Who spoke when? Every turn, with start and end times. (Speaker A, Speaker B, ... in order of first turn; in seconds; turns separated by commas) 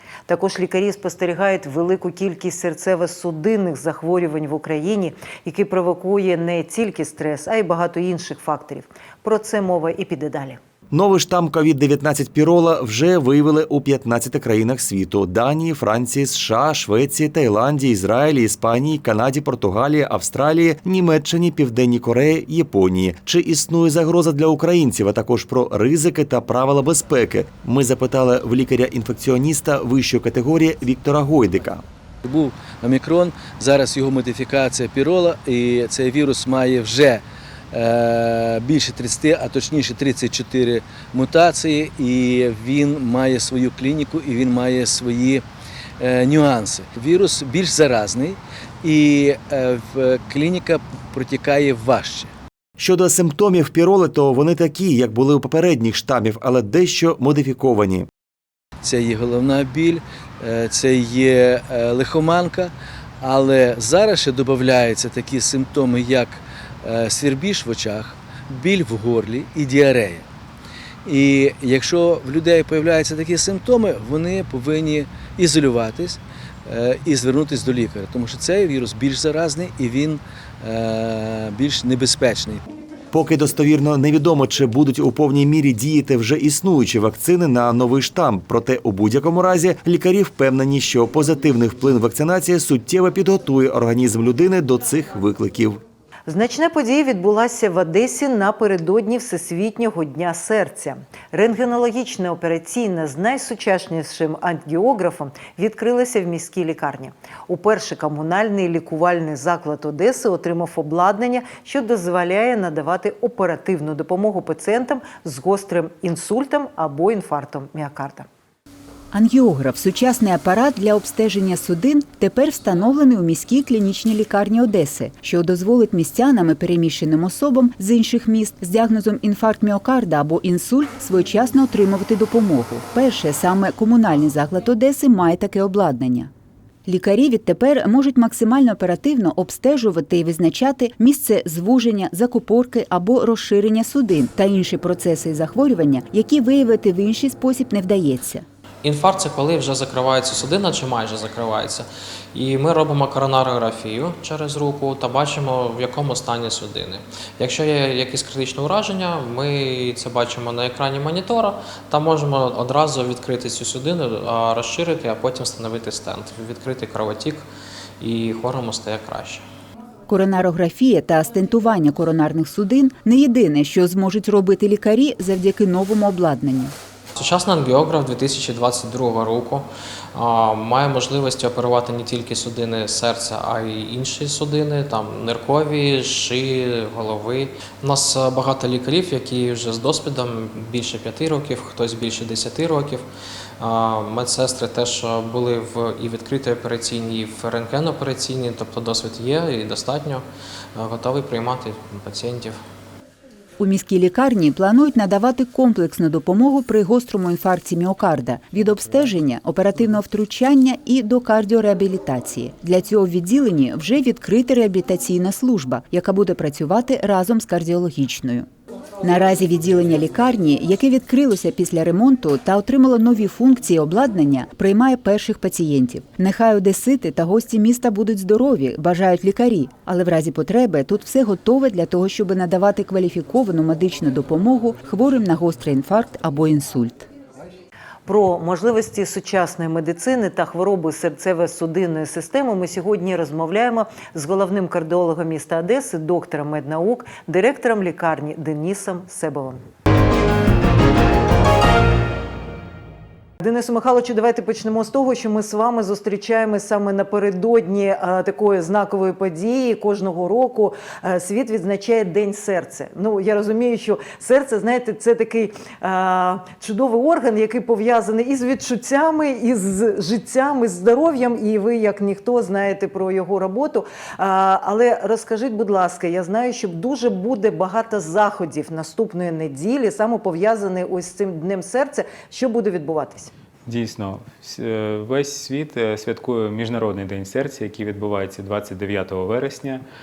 Speaker A: 0.3-10.6, Speaker B: 10.9-31.8, Speaker C: 32.2-45.4, Speaker C: 46.0-52.3, Speaker B: 52.8-58.1, Speaker C: 58.8-70.2, Speaker C: 71.0-82.6, Speaker B: 83.1-95.8, Speaker A: 96.3-118.3, Speaker D: 119.1-136.3, Speaker D: 136.9-148.4, Speaker E: 148.8-167.4, Speaker E: 168.0-169.4, Speaker D: 170.1-176.7, Speaker E: 177.1-193.1, Speaker E: 193.6-200.2, Speaker E: 200.8-202.6, Speaker D: 203.6-218.5, Speaker D: 219.0-237.1, Speaker A: 238.1-249.6, Speaker A: 253.4-283.3, Speaker F: 283.7-289.8